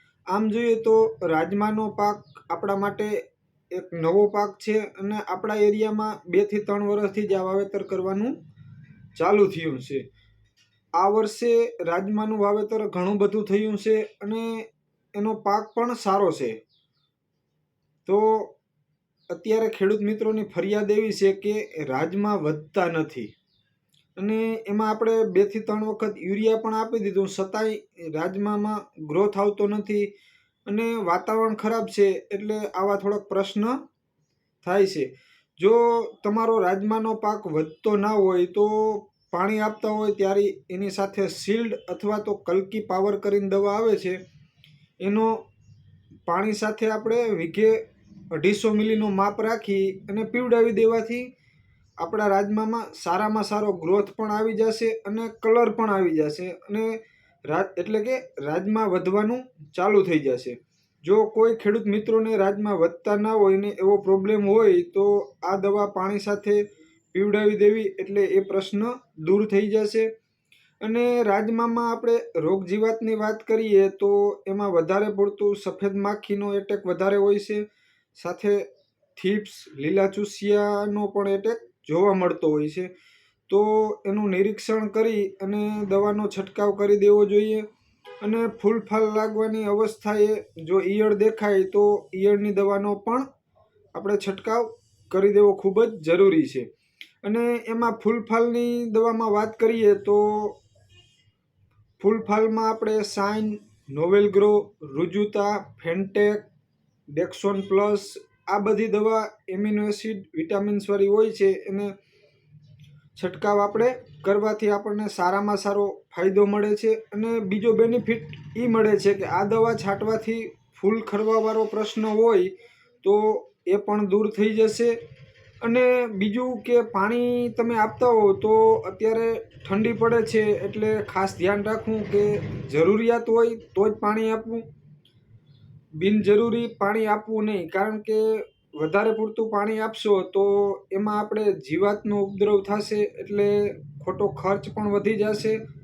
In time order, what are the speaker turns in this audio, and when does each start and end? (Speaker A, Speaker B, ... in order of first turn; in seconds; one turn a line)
Speaker A: 0.3-8.4
Speaker A: 9.1-10.0
Speaker A: 11.0-16.6
Speaker A: 18.0-18.5
Speaker A: 19.3-23.3
Speaker A: 24.2-30.1
Speaker A: 30.7-33.8
Speaker A: 34.6-44.2
Speaker A: 45.0-45.4
Speaker A: 46.3-51.3
Speaker A: 52.0-70.1
Speaker A: 70.8-77.6
Speaker A: 78.1-82.9
Speaker A: 83.5-87.6
Speaker A: 88.2-93.2
Speaker A: 93.9-96.7
Speaker A: 97.2-100.6
Speaker A: 102.0-106.5
Speaker A: 107.1-111.9
Speaker A: 113.2-125.0
Speaker A: 125.6-134.6
Speaker A: 136.0-145.6